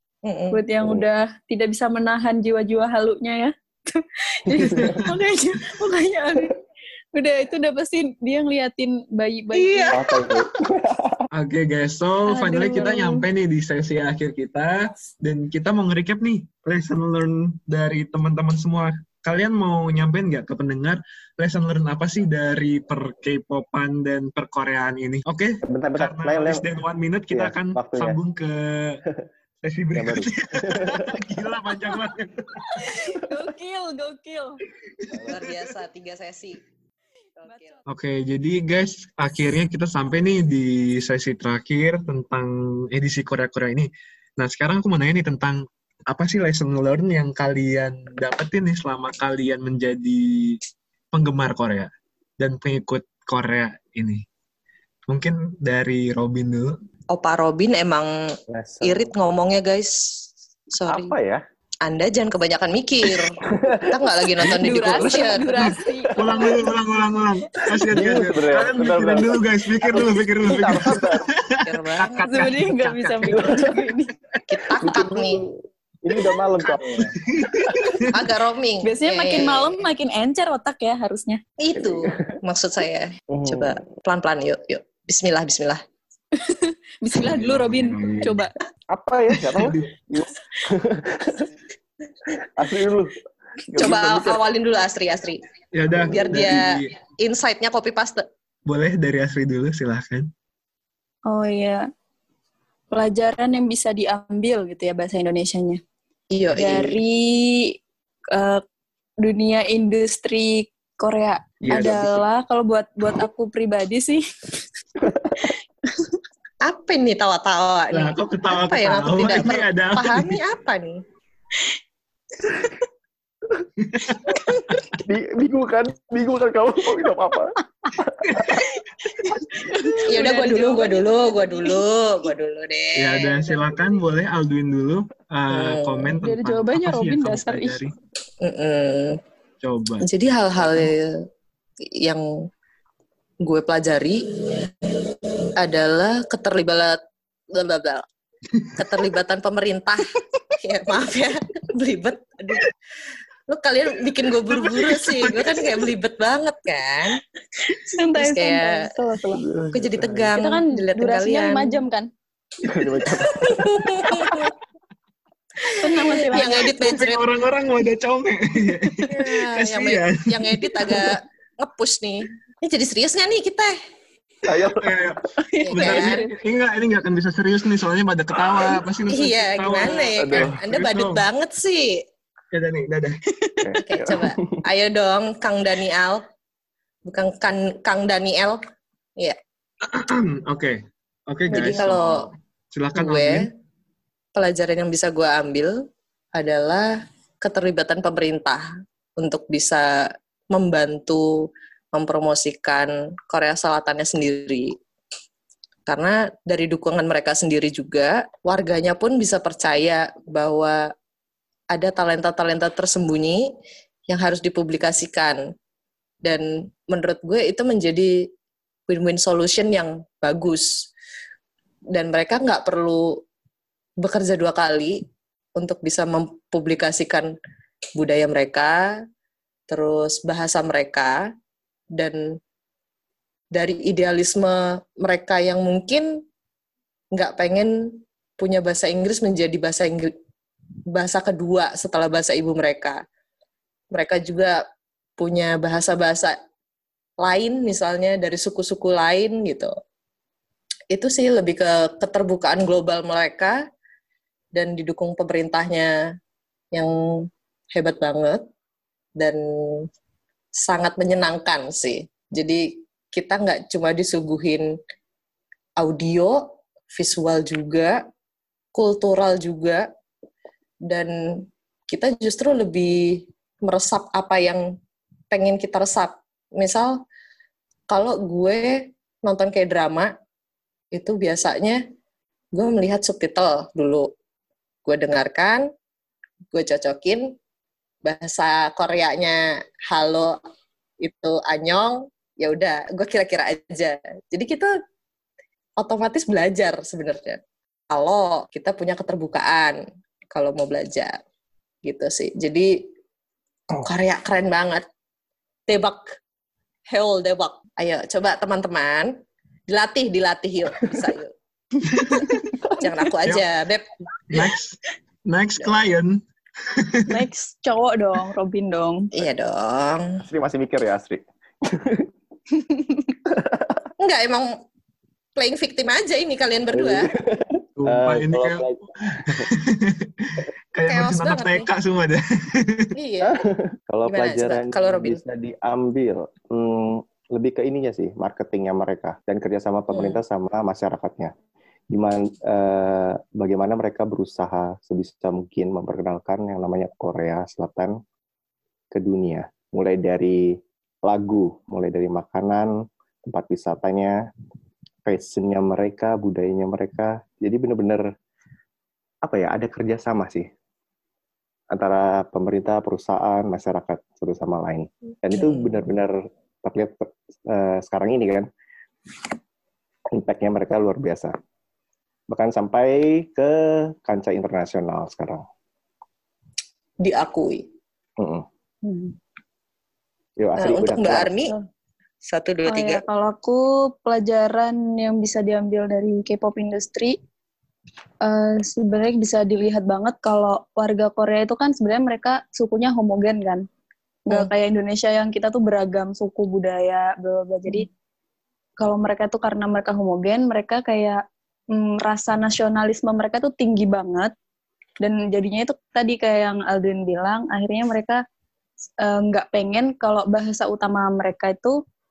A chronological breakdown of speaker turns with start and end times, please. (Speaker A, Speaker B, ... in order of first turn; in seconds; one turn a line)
Speaker A: 0.2-0.6
Speaker B: 0.5-6.6
Speaker C: 4.5-4.9
Speaker D: 4.6-5.1
Speaker B: 7.1-10.1
Speaker A: 9.5-10.1
Speaker C: 9.9-11.2
Speaker D: 11.3-29.0
Speaker B: 12.3-13.2
Speaker C: 25.6-26.6
Speaker C: 27.3-28.2
Speaker D: 29.6-32.5
Speaker C: 29.9-31.1
Speaker B: 32.6-34.6
Speaker D: 35.0-35.6
Speaker A: 35.2-36.6
Speaker B: 37.4-37.8
Speaker A: 37.4-37.8
Speaker D: 37.9-50.6
Speaker D: 51.1-54.2
Speaker D: 55.1-56.8
Speaker A: 57.1-61.1
Speaker C: 58.5-59.1
Speaker C: 60.9-61.4
Speaker A: 61.8-65.8
Speaker C: 63.4-64.0
Speaker D: 64.4-64.9
Speaker B: 64.6-66.7
Speaker D: 66.1-73.5
Speaker C: 67.9-71.3
Speaker A: 71.6-72.5
Speaker B: 72.2-74.1
Speaker C: 73.2-73.9
Speaker A: 74.5-75.4
Speaker C: 74.8-78.0
Speaker D: 76.8-78.1
Speaker A: 78.1-79.8
Speaker B: 78.8-81.4
Speaker A: 81.6-85.8
Speaker C: 81.7-82.3
Speaker C: 83.3-83.8
Speaker B: 86.3-88.5
Speaker D: 87.2-88.4
Speaker C: 88.9-91.5
Speaker D: 89.5-89.9
Speaker C: 92.4-94.4
Speaker A: 93.8-95.4
Speaker D: 95.7-96.9
Speaker A: 96.0-98.2
Speaker D: 98.7-100.3
Speaker B: 101.3-101.9
Speaker B: 102.9-105.8
Speaker A: 106.3-107.0
Speaker B: 106.5-107.8
Speaker B: 108.3-108.6
Speaker B: 109.2-114.2
Speaker D: 111.6-112.2
Speaker B: 115.4-116.1
Speaker A: 116.6-121.0
Speaker D: 117.9-120.4
Speaker D: 123.8-124.9
Speaker C: 125.0-128.6
Speaker D: 128.2-128.6
Speaker B: 128.5-131.8
Speaker A: 130.0-133.6
Speaker D: 132.9-137.9
Speaker A: 135.5-136.1
Speaker B: 136.2-137.8
Speaker A: 138.4-139.2
Speaker D: 139.6-140.1
Speaker A: 140.0-141.2
Speaker A: 141.9-142.5
Speaker A: 143.4-145.0
Speaker A: 145.6-147.0
Speaker A: 147.5-148.0
Speaker A: 148.8-150.1
Speaker A: 150.6-152.7
Speaker A: 153.5-157.2
Speaker D: 154.5-155.6
Speaker B: 157.6-159.4
Speaker A: 158.2-158.9
Speaker C: 159.3-160.3
Speaker A: 159.7-161.8
Speaker B: 160.3-162.1
Speaker C: 162.6-163.7
Speaker A: 163.1-164.5
Speaker A: 165.6-167.2
Speaker B: 165.7-166.9
Speaker D: 166.3-171.2
Speaker A: 169.1-173.8
Speaker C: 174.4-175.0
Speaker D: 174.7-181.2
Speaker A: 175.6-176.2
Speaker B: 175.7-176.3
Speaker A: 179.1-182.0
Speaker C: 180.2-180.6
Speaker D: 182.5-183.2
Speaker C: 183.6-184.6
Speaker A: 183.8-186.2
Speaker A: 187.1-188.6
Speaker D: 189.8-193.5
Speaker A: 191.5-192.2
Speaker A: 192.9-193.5
Speaker A: 194.3-198.6
Speaker A: 199.2-204.8
Speaker A: 205.9-210.9
Speaker A: 211.7-213.5
Speaker A: 214.1-215.5
Speaker A: 216.2-218.3
Speaker A: 218.9-220.9
Speaker A: 221.9-223.2
Speaker A: 224.0-225.0
Speaker A: 225.6-227.3
Speaker A: 227.9-229.0
Speaker A: 229.7-231.3
Speaker A: 231.9-232.4
Speaker A: 233.5-236.2
Speaker A: 237.1-240.1
Speaker A: 240.9-243.0
Speaker A: 243.9-244.6
Speaker A: 245.2-246.4
Speaker A: 247.2-249.7
Speaker A: 250.9-253.6
Speaker A: 254.5-255.9
Speaker A: 256.7-258.4
Speaker A: 259.2-259.9
Speaker A: 260.6-264.8
Speaker A: 265.8-268.0
Speaker A: 268.7-269.9
Speaker A: 270.9-274.7
Speaker A: 275.3-277.0
Speaker A: 277.9-280.1
Speaker A: 280.9-281.8
Speaker A: 282.5-284.1
Speaker A: 284.8-285.7
Speaker A: 286.5-287.4
Speaker A: 288.0-290.4
Speaker A: 291.0-294.7
Speaker A: 295.8-299.8
Speaker A: 300.3-301.2
Speaker A: 301.8-302.9
Speaker A: 303.7-304.8
Speaker A: 305.7-306.1
Speaker A: 306.9-311.3
Speaker A: 311.9-314.5
Speaker D: 312.0-312.3
Speaker D: 314.3-317.2
Speaker B: 317.1-319.1
Speaker A: 319.1-320.2
Speaker C: 320.2-322.1
Speaker C: 323.2-323.8
Speaker A: 324.0-324.5
Speaker A: 325.4-327.1
Speaker C: 326.7-329.5
Speaker D: 327.8-328.7
Speaker D: 329.2-332.9
Speaker A: 330.9-331.7
Speaker A: 332.9-333.3
Speaker C: 333.2-341.3
Speaker A: 334.1-335.2
Speaker A: 339.9-340.2
Speaker C: 341.9-348.0
Speaker C: 348.9-352.7
Speaker C: 353.2-354.2
Speaker C: 355.1-358.0
Speaker C: 359.2-360.5
Speaker C: 361.7-368.5
Speaker A: 365.4-365.8
Speaker C: 370.1-371.3
Speaker C: 372.3-375.4
Speaker A: 377.0-377.7
Speaker C: 378.2-378.4
Speaker B: 378.8-379.1
Speaker C: 380.4-381.4
Speaker A: 380.6-381.5
Speaker A: 382.3-383.0
Speaker B: 382.6-387.2
Speaker B: 388.2-393.7
Speaker B: 394.3-397.9
Speaker B: 398.8-404.3
Speaker B: 405.0-408.2
Speaker B: 409.0-411.8